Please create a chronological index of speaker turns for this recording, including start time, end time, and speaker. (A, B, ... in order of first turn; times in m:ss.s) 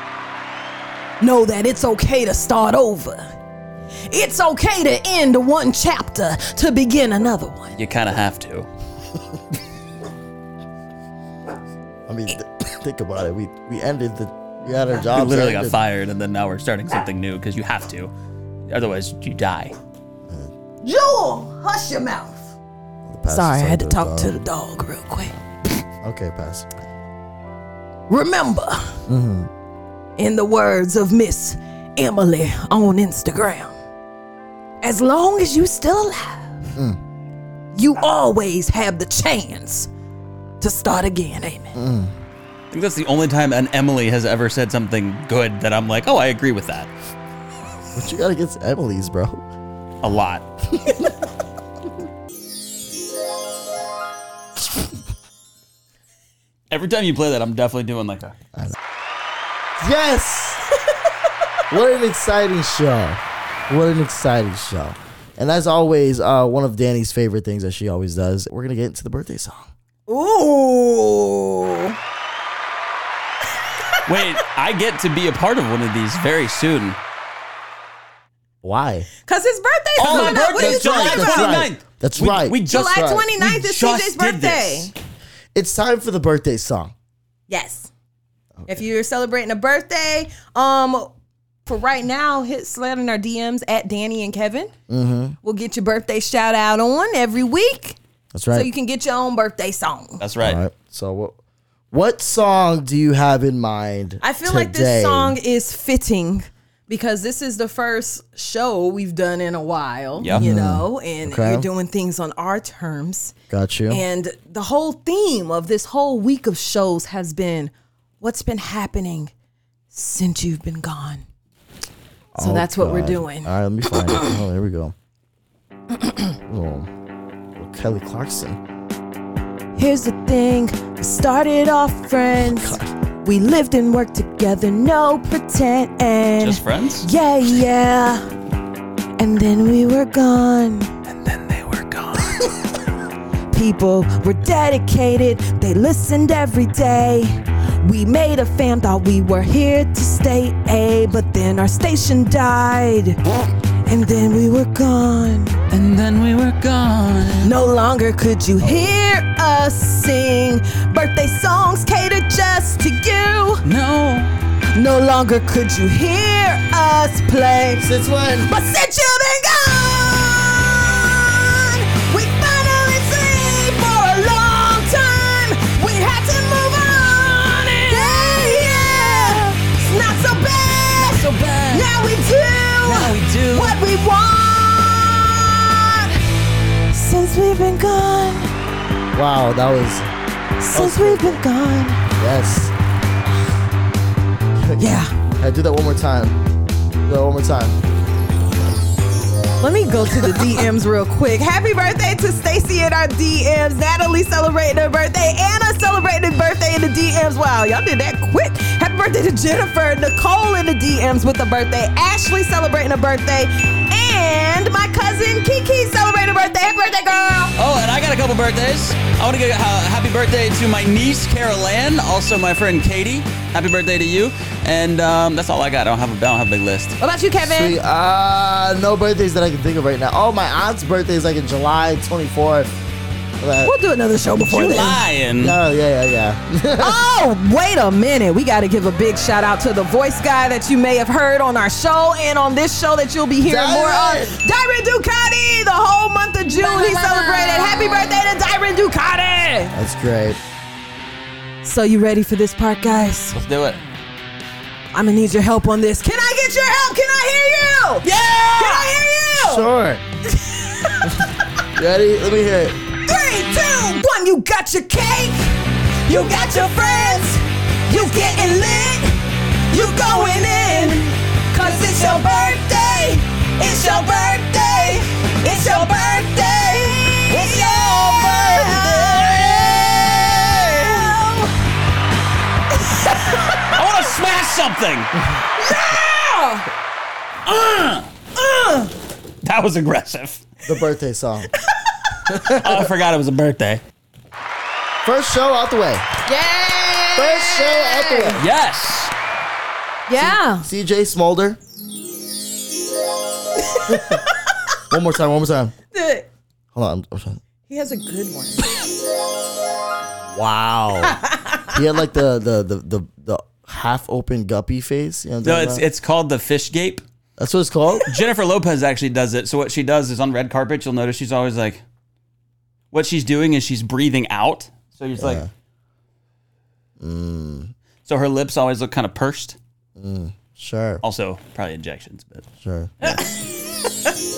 0:01.2-0:03.2 A
0:04.1-0:07.7 A
0:07.7-0:08.7 B
0:12.1-0:15.8 C
0:15.1-0:18.1 B
0:18.7-0:19.8 B
0:20.3-0:20.5 C
0:20.8-0:22.4 A
0:23.1-0:24.4 C
0:23.3-0:25.4 A
0:26.0-0:26.7 C
0:28.1-0:29.0 A
0:29.1-0:29.5 C
0:30.2-0:33.8 A
0:34.8-0:36.7 A
0:37.7-0:39.9 A
0:40.6-0:41.8 A
0:41.8-0:42.1 C
0:42.7-0:46.9 B
0:47.9-0:49.4 C
0:50.0-0:50.4 B
0:50.7-0:51.2 C
0:56.7-0:58.3 B
0:59.8-1:00.6 C
1:01.7-1:09.7 C
1:10.1-1:12.0 A
1:13.8-1:14.0 A
1:14.1-1:17.0 B
1:18.6-1:19.1 C
1:19.2-1:21.6 A
1:20.0-1:24.9 B
1:20.0-1:23.2 C
1:22.7-1:24.9 A
1:25.6-1:26.9 C
1:27.5-1:27.9 A
1:28.7-1:31.1 A
1:31.6-1:34.7 A
1:34.9-1:35.4 C
1:35.4-1:38.0 A
1:38.3-1:38.7 C
1:38.5-1:40.2 A
1:40.2-1:40.6 B
1:40.4-1:41.4 C
1:41.9-1:45.4 C
1:44.2-1:53.3 A
1:50.2-1:50.5 B
1:50.3-1:51.7 C
1:53.5-1:54.0 C
1:53.9-1:59.3 A
1:59.9-2:01.2 A
2:02.3-2:04.9 C
2:02.4-2:04.4 A
2:06.5-2:06.9 C
2:07.6-2:08.6 C
2:09.8-2:18.2 A
2:12.4-2:12.9 C
2:16.4-2:17.1 B
2:19.2-2:20.9 A
2:21.0-2:22.5 B
2:23.5-2:33.2 A
2:33.8-2:35.6 A
2:35.7-2:37.5 B
2:37.4-2:43.6 A
2:38.6-2:39.0 C
2:43.6-2:44.3 B
2:44.7-2:47.9 A
2:47.8-2:48.5 C
2:48.4-3:06.2 A
3:01.0-3:01.9 B
3:02.8-3:03.8 B
3:06.9-3:08.5 A
3:09.1-3:10.1 C
3:10.6-3:12.0 A
3:10.7-3:11.4 C
3:12.1-3:12.7 C
3:14.6-3:16.4 C
3:14.8-3:15.1 A
3:17.0-3:17.8 C
3:19.6-3:37.5 A
3:37.6-3:47.0 B
3:47.0-3:47.8 A
3:47.4-3:52.7 C
3:53.4-3:53.7 C
3:53.6-3:55.0 A
3:54.5-3:55.6 B
3:55.4-3:57.0 C
3:56.8-4:09.7 A
4:03.4-4:04.4 C
4:06.5-4:08.2 B
4:09.7-4:10.4 C
4:11.6-4:13.4 A
4:13.3-4:13.8 B
4:14.9-4:19.7 A
4:18.0-4:18.9 B
4:19.4-4:20.0 C
4:20.4-4:21.4 A
4:21.7-4:22.8 C
4:23.0-4:41.5 A
4:37.3-4:41.2 B
4:42.7-4:43.8 A
4:43.6-4:45.2 B
4:45.6-4:46.7 A
4:47.5-4:48.1 B
4:48.4-4:48.9 A
4:49.4-4:50.4 B
4:50.6-4:51.5 C
4:52.3-4:52.9 C
4:52.3-4:53.8 B
4:55.0-4:56.0 C
4:56.2-4:58.5 A
4:57.2-4:58.4 C
4:58.4-4:59.1 B
5:00.1-5:00.7 A
5:00.2-5:01.6 C
5:03.7-5:04.1 A
5:03.9-5:04.2 C
5:04.9-5:05.7 C
5:05.9-5:06.3 A
5:06.8-5:07.4 C
5:07.7-5:08.6 A
5:10.3-5:11.2 C
5:11.1-5:11.8 A
5:11.7-5:15.9 C
5:15.4-5:17.0 B
5:17.4-5:18.2 C
5:18.0-5:21.8 B
5:22.9-5:25.4 B
5:25.2-5:25.5 C
5:27.0-5:27.7 C
5:28.0-5:29.6 B
5:30.0-5:31.0 C
5:31.0-5:32.5 B
5:32.6-5:33.2 C
5:33.1-5:33.5 A